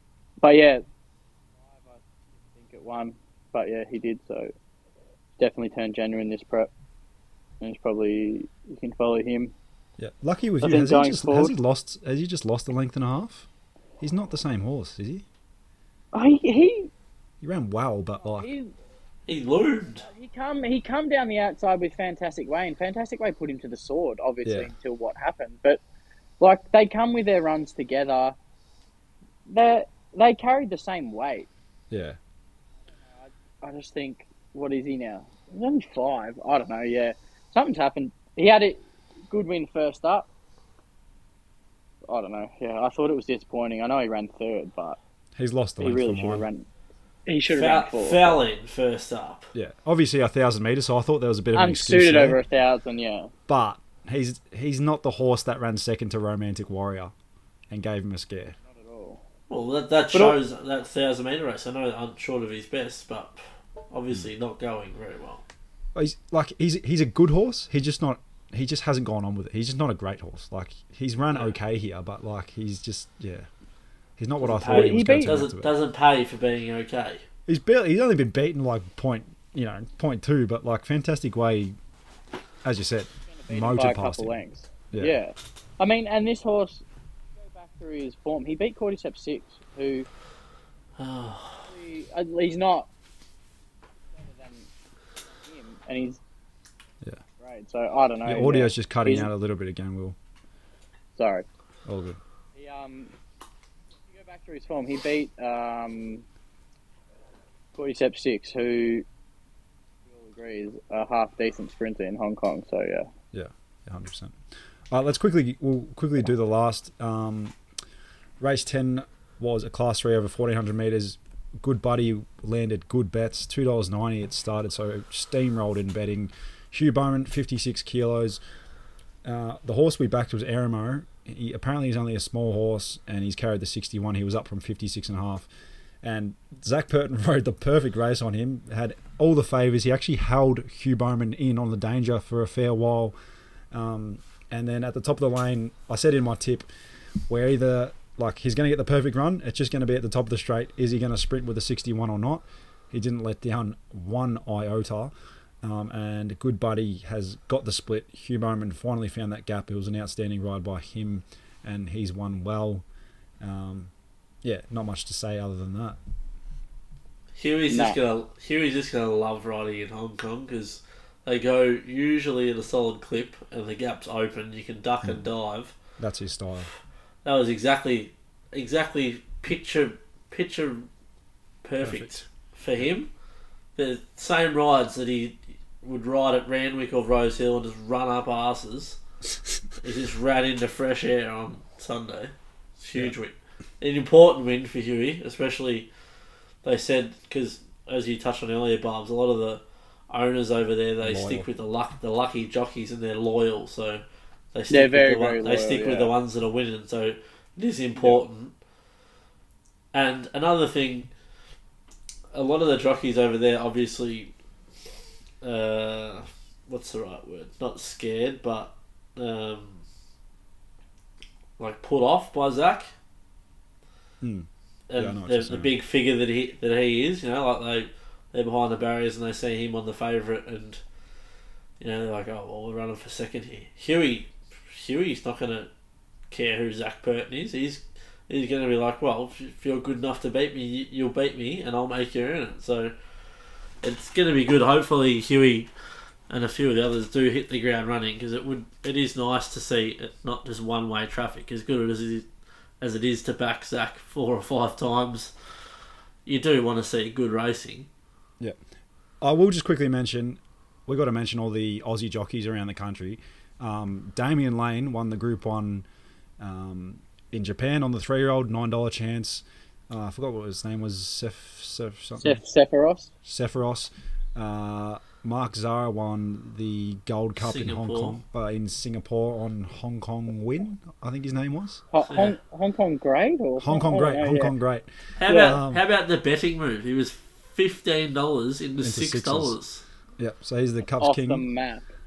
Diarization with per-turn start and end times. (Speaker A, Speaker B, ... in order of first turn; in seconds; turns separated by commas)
Speaker A: 0.4-0.8, Speaker A: 1.6-4.5, Speaker A: 5.4-6.7, Speaker A: 7.6-9.5, Speaker B: 10.0-13.5, Speaker A: 10.6-11.5, Speaker B: 14.0-15.3, Speaker A: 16.1-16.9, Speaker B: 17.4-18.5, Speaker A: 18.3-18.7, Speaker C: 19.3-20.1, Speaker A: 20.0-25.8, Speaker B: 24.4-24.7, Speaker A: 26.4-28.4, Speaker A: 29.5-31.5, Speaker B: 31.9-32.2, Speaker A: 33.1-40.3, Speaker A: 42.1-45.0, Speaker B: 45.4-46.5, Speaker A: 45.8-46.7, Speaker A: 47.3-48.4, Speaker C: 47.5-49.5, Speaker B: 49.5-52.4, Speaker A: 51.5-53.3, Speaker B: 53.5-57.1, Speaker B: 57.7-58.6, Speaker A: 58.6-59.2, Speaker C: 59.5-65.4, Speaker A: 60.1-60.4, Speaker B: 66.0-73.5, Speaker B: 74.2-75.7, Speaker C: 74.4-77.2, Speaker A: 74.7-75.3, Speaker B: 77.5-81.8, Speaker B: 82.6-84.3, Speaker A: 83.3-86.8, Speaker A: 87.4-90.1, Speaker C: 91.0-91.7, Speaker A: 91.6-92.9, Speaker A: 94.2-94.7, Speaker A: 95.3-96.2, Speaker A: 97.4-99.3, Speaker B: 98.2-100.2, Speaker A: 101.2-101.5, Speaker B: 101.9-102.2, Speaker A: 102.5-103.1, Speaker A: 104.1-106.2, Speaker A: 107.8-109.1, Speaker A: 110.1-113.1, Speaker B: 113.3-114.4, Speaker B: 114.9-117.6, Speaker B: 118.4-128.4, Speaker B: 129.2-135.5, Speaker B: 136.0-143.2, Speaker B: 143.7-146.7, Speaker B: 147.3-162.8, Speaker B: 163.4-163.9, Speaker B: 164.4-166.0, Speaker C: 167.4-175.8, Speaker A: 167.7-168.0, Speaker B: 176.0-176.7, Speaker C: 177.2-180.9, Speaker C: 181.6-183.1, Speaker B: 181.8-182.2, Speaker C: 183.8-189.0, Speaker C: 189.8-195.9, Speaker C: 196.6-208.5, Speaker B: 201.0-201.4, Speaker A: 204.7-206.1, Speaker C: 209.9-211.1, Speaker C: 212.3-214.3, Speaker C: 215.4-219.8, Speaker C: 221.6-222.9, Speaker B: 224.2-225.7, Speaker C: 224.9-230.8, Speaker C: 231.8-235.7, Speaker C: 236.3-242.9, Speaker C: 243.8-245.7, Speaker C: 246.3-252.3, Speaker C: 252.8-255.3, Speaker C: 256.2-257.9, Speaker B: 259.2-265.9, Speaker B: 266.4-272.4, Speaker A: 272.2-273.1, Speaker B: 273.2-281.8, Speaker C: 277.4-278.2, Speaker A: 281.9-284.6, Speaker C: 282.1-282.4, Speaker B: 283.6-285.8, Speaker C: 285.2-289.8, Speaker A: 285.3-285.6, Speaker B: 288.8-289.6, Speaker B: 290.2-291.4, Speaker A: 291.0-291.9